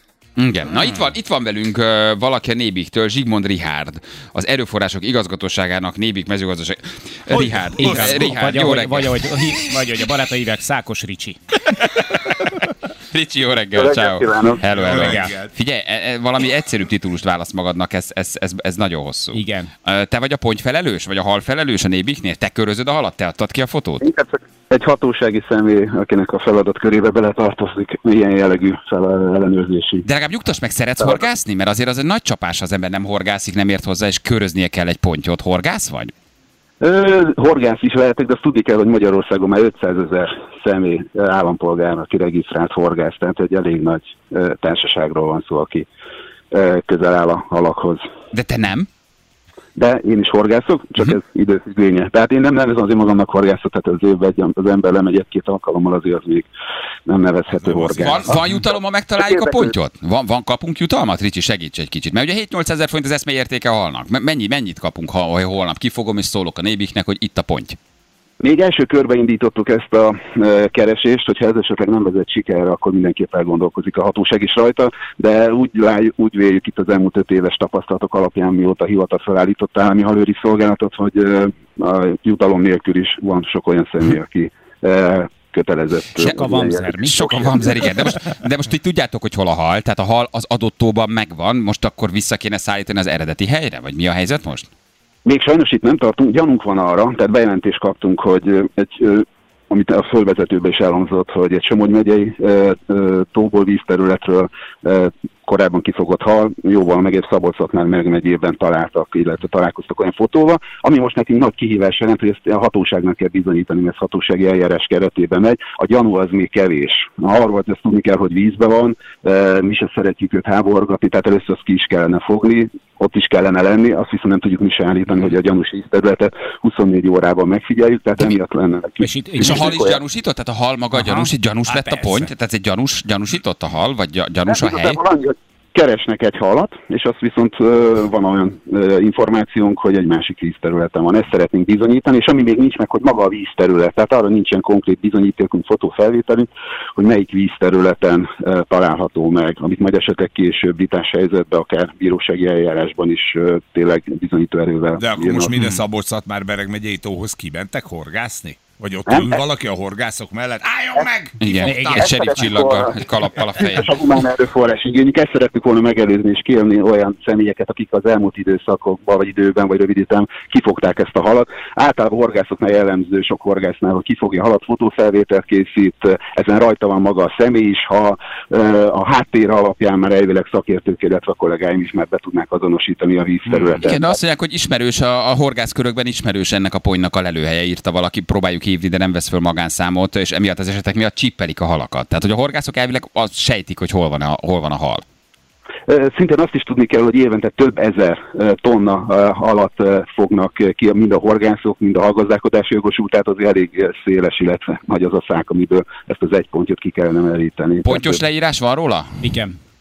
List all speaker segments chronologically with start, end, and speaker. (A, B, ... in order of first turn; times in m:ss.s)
0:00.4-0:09.6 A
0:07.3-0:08.4 B
0:07.8-0:11.4 C
0:11.8-0:12.5 A
0:13.1-0:24.0 A
0:13.7-0:14.7 D
0:14.6-0:15.5 B
0:15.0-0:15.3 C
0:19.3-0:19.7 C
0:24.0-0:30.1 D
0:30.0-0:36.1 A
0:36.8-0:45.9 D
0:46.5-0:48.0 D
0:48.3-0:48.9 A
0:49.8-0:56.5 D
0:57.1-0:58.6 D
0:57.5-0:58.4 B
0:58.0-1:07.8 A
0:59.2-0:59.7 D
1:08.4-1:27.9 D
1:26.2-1:27.2 C
1:27.0-1:34.7 A
1:35.2-2:10.0 D
2:09.0-2:09.8 C
2:09.4-2:15.0 A
2:10.9-2:11.3 C
2:11.7-2:12.3 B
2:14.5-2:35.6 D
2:35.0-2:42.0 B
2:35.6-2:35.8 C
2:39.1-2:39.4 D
2:41.4-2:43.9 A
2:41.6-2:42.4 C
2:41.8-3:04.2 D
3:03.8-3:15.0 A
3:15.9-3:28.2 D
3:27.8-3:29.2 A
3:29.2-3:29.6 C